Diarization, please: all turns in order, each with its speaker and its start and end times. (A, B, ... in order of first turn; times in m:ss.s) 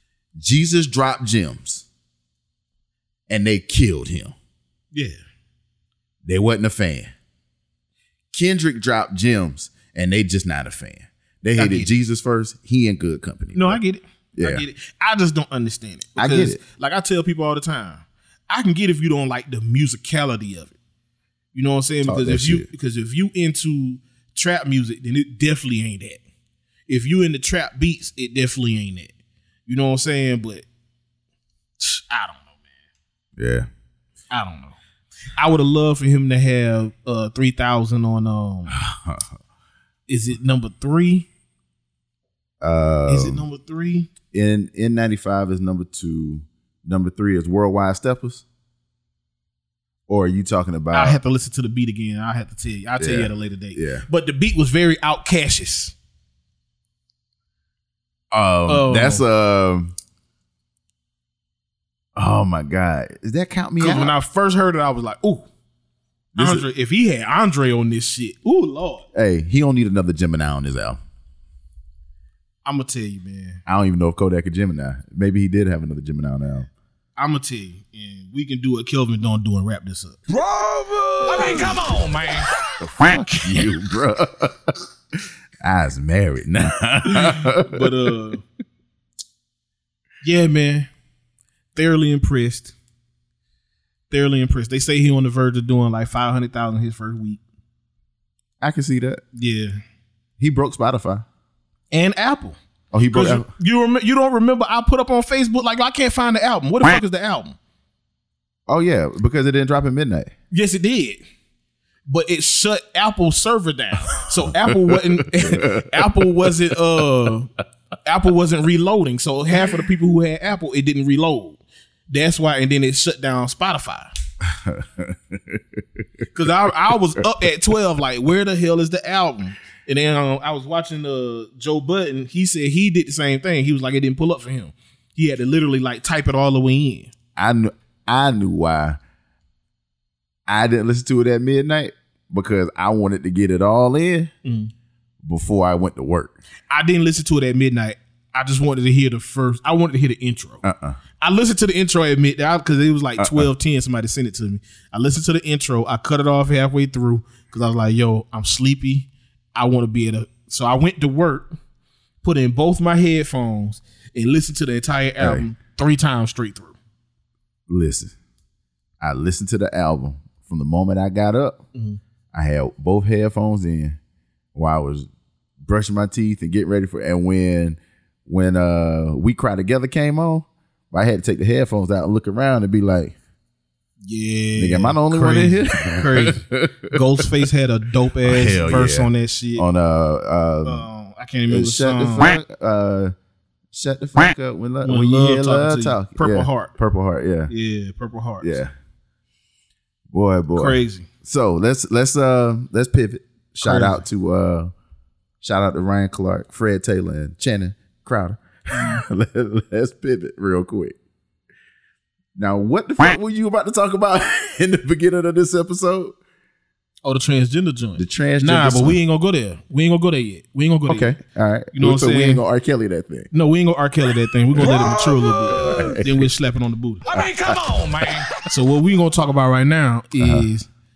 0:00.4-0:01.8 A
0:03.3-0:04.4 A
0:04.9-0:05.2 B
0:06.2-0:07.1 A
0:08.3-0:13.8 A
0:11.6-0:11.9 B
0:13.5-0:20.7 B
0:14.4-0:14.6 A
0:16.2-0:16.6 A
0:21.5-0:26.2 B
0:22.0-0:22.7 A
0:26.9-0:29.1 B
0:29.6-0:30.6 B
0:31.8-0:32.5 B
0:33.4-0:33.7 A
0:34.3-0:34.8 B
0:35.3-0:38.7 B
0:38.7-0:39.2 A
0:40.1-0:41.3 B
0:42.6-0:43.4 A
0:43.0-0:44.1 B
0:44.3-0:48.4 A
0:50.1-0:51.2 A
0:50.9-0:55.9 B
0:53.0-0:54.0 A
0:58.3-0:59.9 A
0:58.7-0:59.2 B
1:02.2-1:04.2 A
1:03.8-1:05.5 B
1:06.3-1:06.6 A
1:06.4-1:09.0 B
1:09.1-1:11.0 A
1:12.6-1:13.6 B
1:13.6-1:16.7 A
1:17.2-1:20.2 B
1:20.5-1:21.8 A
1:21.2-1:22.5 B
1:22.8-1:24.6 A
1:25.6-1:27.9 A
1:27.0-1:28.4 B
1:30.2-1:30.9 B
1:31.7-1:32.7 B
1:34.1-1:37.4 B
1:38.6-1:39.2 A
1:39.3-1:39.8 B
1:40.4-1:41.2 A
1:41.9-1:47.6 B
1:42.9-1:43.5 A
1:48.7-1:50.3 A
1:50.5-1:51.2 B
1:52.1-1:57.5 B
1:54.9-1:55.9 A
1:58.0-2:04.1 B
2:04.5-2:06.2 A
2:06.3-2:17.1 B
2:17.4-2:19.0 A
2:20.5-2:24.3 A
2:24.4-2:24.7 B
2:25.2-2:26.4 A
2:26.7-2:30.6 B
2:30.6-2:31.0 A
2:31.2-2:41.5 B
2:33.2-2:33.5 A
2:42.2-2:46.7 B
2:45.2-2:45.4 A
2:47.7-2:48.1 A
2:49.0-2:51.6 A
2:52.3-2:54.0 A
2:54.5-2:55.1 A
2:55.6-3:03.1 A
3:04.0-3:09.6 B
3:04.6-3:07.3 A
3:08.2-3:10.9 A
3:10.6-3:12.4 B
3:11.5-3:13.1 A
3:13.7-3:17.5 A
3:14.8-3:16.7 B
3:17.5-3:18.6 B
3:18.4-3:18.7 A
3:20.1-3:24.7 A
3:20.5-3:21.1 B
3:23.6-3:24.0 B
3:25.4-3:31.0 A
3:28.7-3:29.0 B
3:32.4-3:36.2 A
3:37.0-3:41.1 B
3:38.0-3:39.0 A
3:40.9-3:43.3 A
3:41.7-3:42.4 B
3:43.3-3:50.7 B
3:44.6-3:46.1 A
3:47.1-3:48.2 A
3:50.2-3:50.5 A